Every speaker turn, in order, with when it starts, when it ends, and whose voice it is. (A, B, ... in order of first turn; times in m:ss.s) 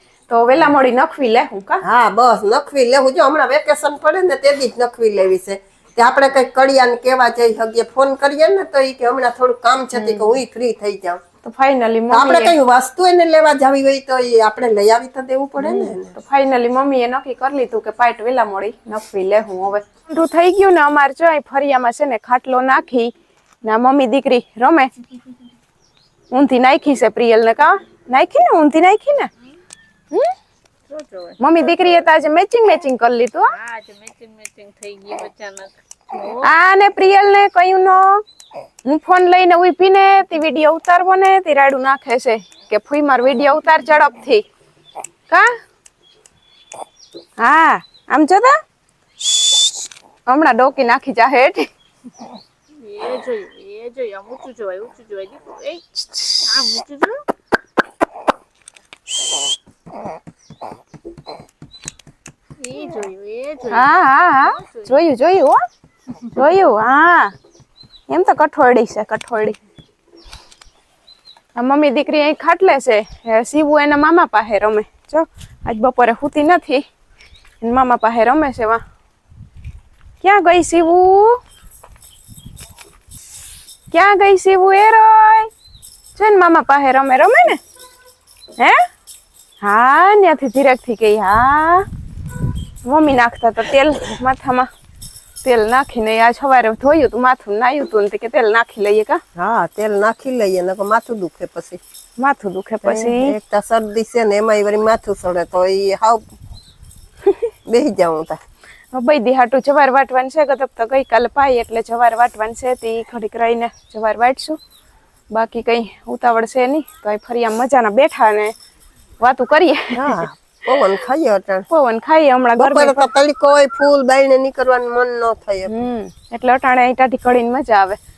0:00.3-0:01.8 A
0:01.8-0:11.2 B
0:10.0-0:10.4 A
0:11.4-0:12.6 A
0:12.1-0:16.1 B
0:15.6-0:23.1 A
0:23.6-0:24.9 A
0:26.3-0:29.3 A
0:30.9-0:31.4 C
0:31.4-0:33.6 A
0:33.5-0:36.5 C
0:36.4-0:38.2 A
0:38.8-0:44.5 A
0:47.4-0:48.6 A
0:49.3-0:49.7 A
0:50.3-0:51.7 A
0:52.8-0:57.2 C
0:56.0-0:56.4 A
1:02.6-1:03.9 C
1:03.7-1:05.6 A
1:04.4-1:04.9 C
1:06.3-1:07.3 A
1:08.1-1:09.6 A
1:11.6-1:16.8 A
1:17.6-1:18.8 A
1:20.2-1:21.4 A
1:23.9-1:25.5 A
1:26.2-1:27.6 A
1:28.6-1:28.8 A
1:29.6-1:31.9 A
1:32.8-1:34.7 A
1:35.4-1:39.2 A
1:39.4-1:41.8 B
1:42.2-1:43.4 A
1:42.8-1:46.2 B
1:47.2-1:47.5 A
1:47.7-1:48.4 B
1:48.9-1:54.6 A
1:55.3-1:58.5 A
1:59.2-2:00.3 A
1:59.9-2:01.7 B
2:01.7-2:03.1 A
2:02.6-2:05.7 B
2:05.7-2:08.0 A